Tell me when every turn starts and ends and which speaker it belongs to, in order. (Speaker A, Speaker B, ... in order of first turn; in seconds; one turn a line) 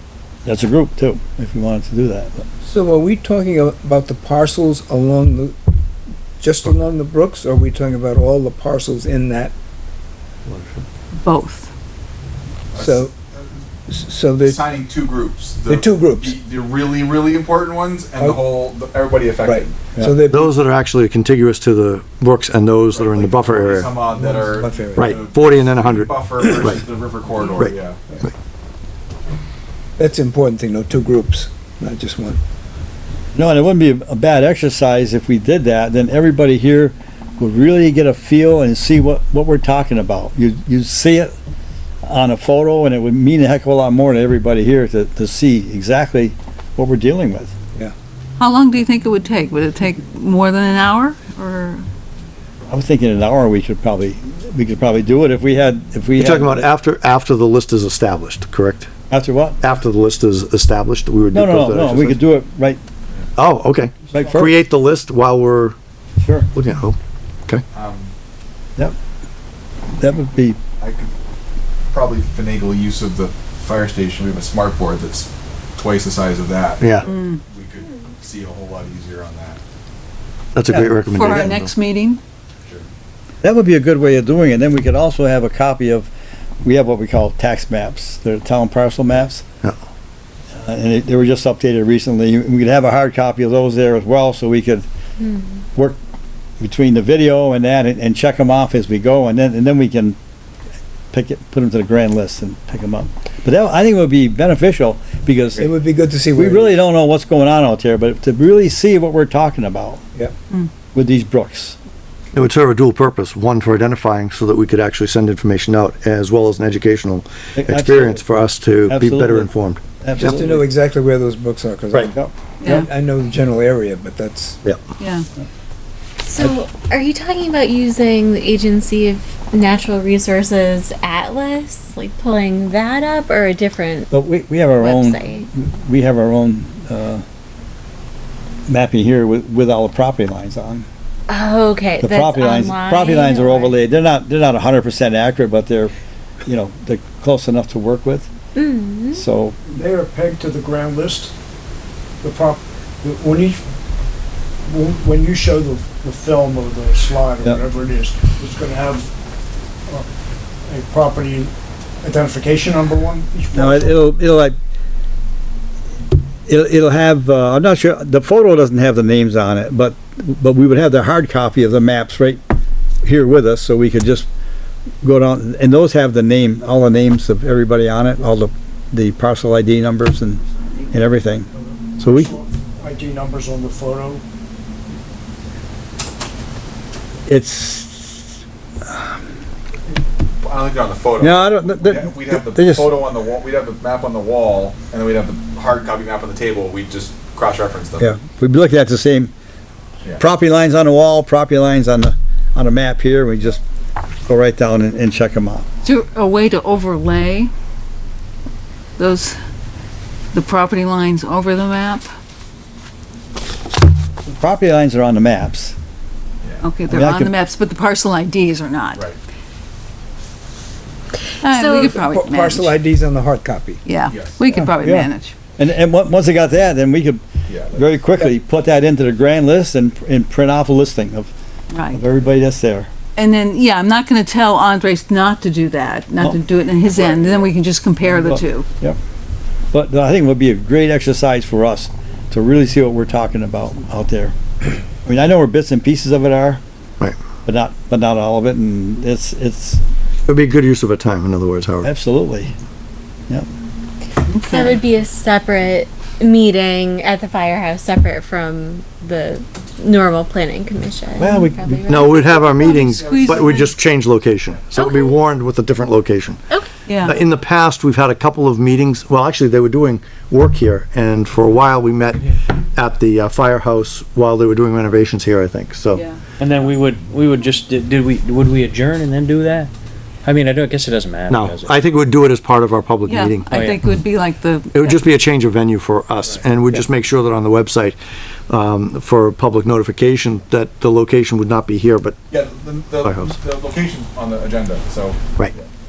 Speaker A: 0.4-2.4
Speaker B: 2.6-5.5
Speaker B: 6.4-9.5
Speaker C: 10.5-10.8
Speaker D: 11.2-11.7
Speaker E: 12.7-13.4
Speaker B: 12.8-13.1
Speaker B: 13.9-14.6
Speaker E: 14.4-19.8
Speaker B: 15.7-16.4
Speaker B: 19.4-20.5
Speaker C: 20.3-23.9
Speaker E: 22.9-28.0
Speaker B: 24.1-25.2
Speaker C: 25.0-26.8
Speaker C: 27.6-28.3
Speaker B: 30.0-32.4
Speaker A: 33.3-41.3
Speaker A: 42.0-47.5
Speaker D: 48.4-51.8
Speaker A: 52.7-56.6
Speaker C: 56.1-58.9
Speaker A: 59.1-59.6
Speaker C: 59.6-62.2
Speaker A: 61.3-62.8
Speaker C: 63.4-65.8
Speaker A: 64.1-64.5
Speaker A: 66.2-66.5
Speaker C: 66.5-67.6
Speaker E: 67.7-68.1
Speaker A: 70.0-70.6
Speaker E: 70.8-71.1
Speaker E: 71.9-79.6
Speaker D: 77.1-77.4
Speaker C: 80.5-81.7
Speaker A: 80.7-80.9
Speaker D: 81.1-82.2
Speaker A: 83.4-86.1
Speaker A: 86.6-89.4
Speaker A: 90.6-94.8
Speaker A: 96.6-100.2
Speaker A: 101.1-105.7
Speaker B: 105.6-106.8
Speaker A: 106.3-110.0
Speaker A: 110.9-111.8
Speaker C: 112.3-120.4
Speaker A: 117.5-118.2
Speaker A: 118.9-120.6
Speaker B: 120.2-124.6
Speaker D: 122.6-122.9
Speaker D: 125.0-125.2
Speaker F: 126.2-134.1
Speaker A: 134.1-137.2
Speaker F: 134.8-135.5
Speaker A: 138.7-140.8
Speaker F: 141.3-143.8
Speaker A: 142.0-145.9
Speaker A: 146.4-148.3
Speaker F: 148.5-149.2
Speaker A: 149.1-149.6
Speaker G: 149.7-151.3
Speaker G: 152.2-153.6
Speaker G: 154.7-159.1
Speaker G: 160.6-164.0
Speaker A: 163.5-164.6
Speaker A: 166.5-172.4
Speaker A: 173.0-174.3
Speaker A: 175.0-181.5
Speaker A: 182.0-182.3
Speaker G: 182.0-184.2
Speaker A: 187.3-188.3
Speaker E: 190.4-198.1
Speaker A: 191.2-193.0
Speaker A: 198.0-199.3
Speaker A: 200.2-203.6
Speaker A: 204.2-205.7
Speaker D: 205.8-207.5
Speaker D: 209.0-209.4
Speaker D: 210.3-212.1
Speaker A: 214.2-215.7
Speaker D: 216.6-219.1
Speaker A: 216.9-217.3
Speaker F: 221.4-221.9
Speaker D: 221.4-222.7
Speaker B: 221.8-223.8
Speaker D: 223.8-225.3
Speaker E: 224.0-224.4
Speaker A: 224.7-227.2
Speaker E: 227.5-227.9
Speaker A: 227.7-231.3
Speaker D: 231.7-232.0
Speaker A: 231.9-232.9
Speaker D: 233.2-238.7
Speaker E: 236.8-237.5
Speaker A: 238.1-239.0
Speaker A: 239.7-244.3
Speaker A: 245.0-246.6
Speaker A: 247.4-249.8
Speaker C: 250.3-251.9
Speaker A: 251.8-252.5
Speaker D: 254.3-254.8
Speaker F: 254.4-263.0
Speaker C: 261.2-266.4
Speaker D: 262.8-263.7
Speaker E: 263.0-263.7
Speaker F: 264.7-265.1
Speaker D: 266.9-267.1
Speaker C: 267.0-276.0
Speaker D: 275.9-276.2
Speaker H: 276.4-279.7
Speaker H: 280.2-281.7
Speaker C: 281.3-283.7
Speaker D: 283.1-285.0
Speaker H: 283.5-283.8
Speaker C: 284.7-288.0
Speaker C: 288.5-292.2
Speaker E: 292.3-295.6
Speaker C: 293.0-293.3